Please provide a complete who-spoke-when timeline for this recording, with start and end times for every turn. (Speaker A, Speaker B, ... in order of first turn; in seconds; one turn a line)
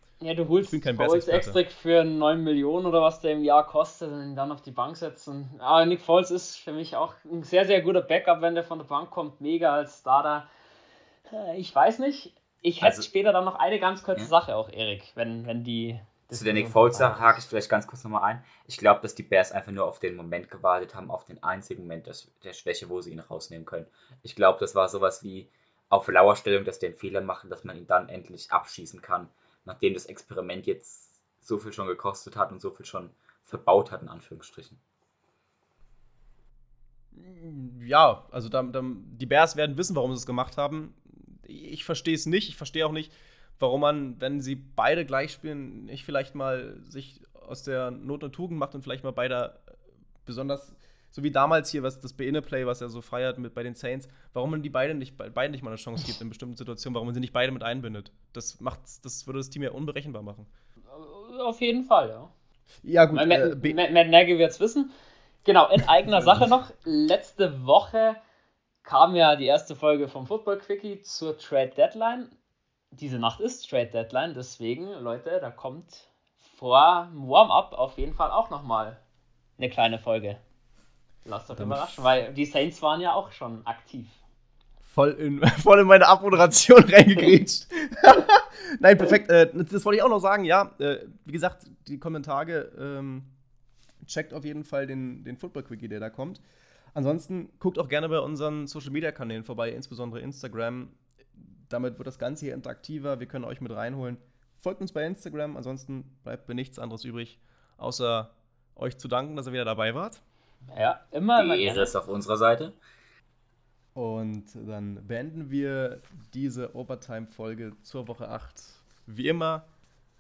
Speaker A: 0.2-10.5
Speaker B: 0.6-1.6
Speaker A: 11.3-17.3
Speaker C: 12.8-13.1
Speaker C: 16.3-34.8
Speaker B: 37.1-49.7
Speaker B: 50.2-60.5
Speaker A: 60.9-62.3
Speaker B: 62.8-63.8
Speaker A: 63.1-64.9
Speaker A: 65.5-68.2
Speaker B: 66.0-66.5
Speaker A: 68.8-72.3
Speaker A: 72.9-79.0
Speaker A: 79.6-80.4
Speaker A: 81.3-84.2
Speaker B: 81.5-82.1
Speaker B: 84.8-93.3
Speaker B: 94.0-96.4
Speaker B: 96.9-110.2
Speaker A: 110.7-111.9
Speaker C: 111.4-112.8
Speaker B: 114.0-119.7